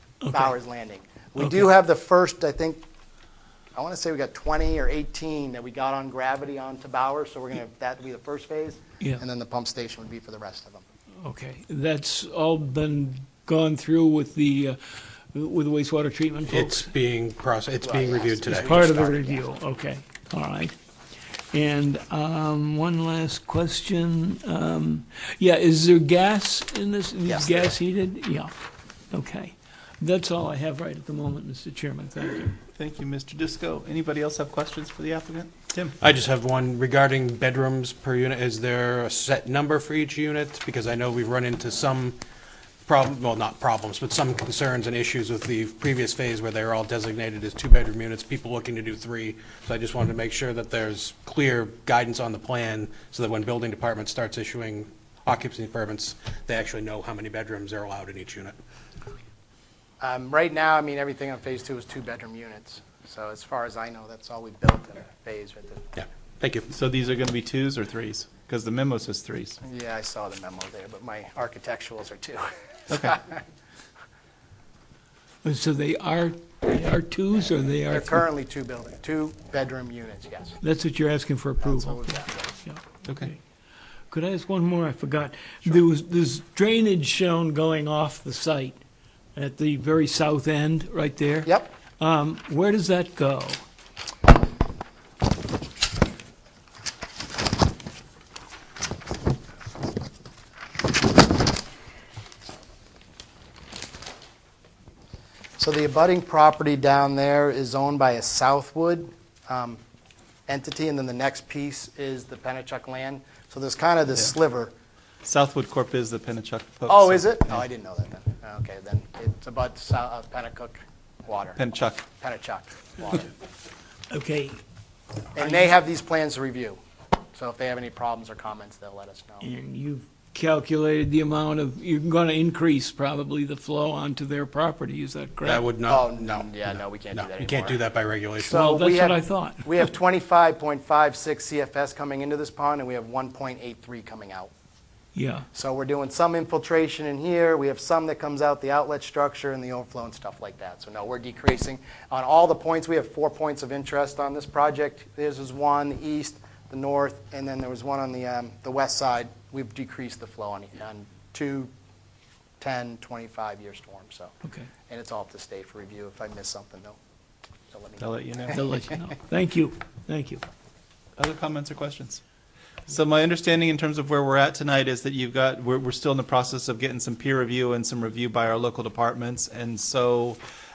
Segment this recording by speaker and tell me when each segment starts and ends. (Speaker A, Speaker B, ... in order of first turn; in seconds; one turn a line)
Speaker A: 0.2-0.5
Speaker B: 0.3-2.8
Speaker A: 1.4-1.7
Speaker B: 3.8-10.8
Speaker A: 11.2-14.8
Speaker A: 15.3-16.9
Speaker C: 16.5-18.7
Speaker B: 17.8-19.5
Speaker A: 18.5-20.7
Speaker A: 21.5-32.6
Speaker B: 27.3-27.7
Speaker D: 32.7-36.0
Speaker C: 36.0-42.2
Speaker C: 42.9-58.5
Speaker B: 60.0-65.9
Speaker C: 66.0-66.7
Speaker D: 66.7-69.6
Speaker B: 69.6-73.4
Speaker D: 72.9-73.2
Speaker A: 75.4-78.2
Speaker B: 77.9-80.6
Speaker A: 80.6-83.4
Speaker B: 81.6-82.5
Speaker D: 83.0-83.3
Speaker A: 84.1-88.8
Speaker A: 89.3-93.6
Speaker B: 105.6-109.8
Speaker B: 110.5-114.7
Speaker D: 115.2-117.6
Speaker B: 116.9-123.3
Speaker D: 121.5-122.0
Speaker A: 124.1-124.6
Speaker B: 125.3-126.8
Speaker A: 125.4-125.7
Speaker B: 127.3-129.5
Speaker A: 129.4-135.6
Speaker C: 135.4-138.6
Speaker B: 135.8-137.8
Speaker B: 138.4-144.5
Speaker A: 138.4-139.9
Speaker A: 145.1-145.4
Speaker B: 145.5-161.7
Speaker B: 162.6-164.3
Speaker B: 164.9-167.0
Speaker B: 167.7-168.6
Speaker D: 168.0-168.6
Speaker A: 168.5-170.4
Speaker D: 171.2-172.2
Speaker D: 172.9-180.4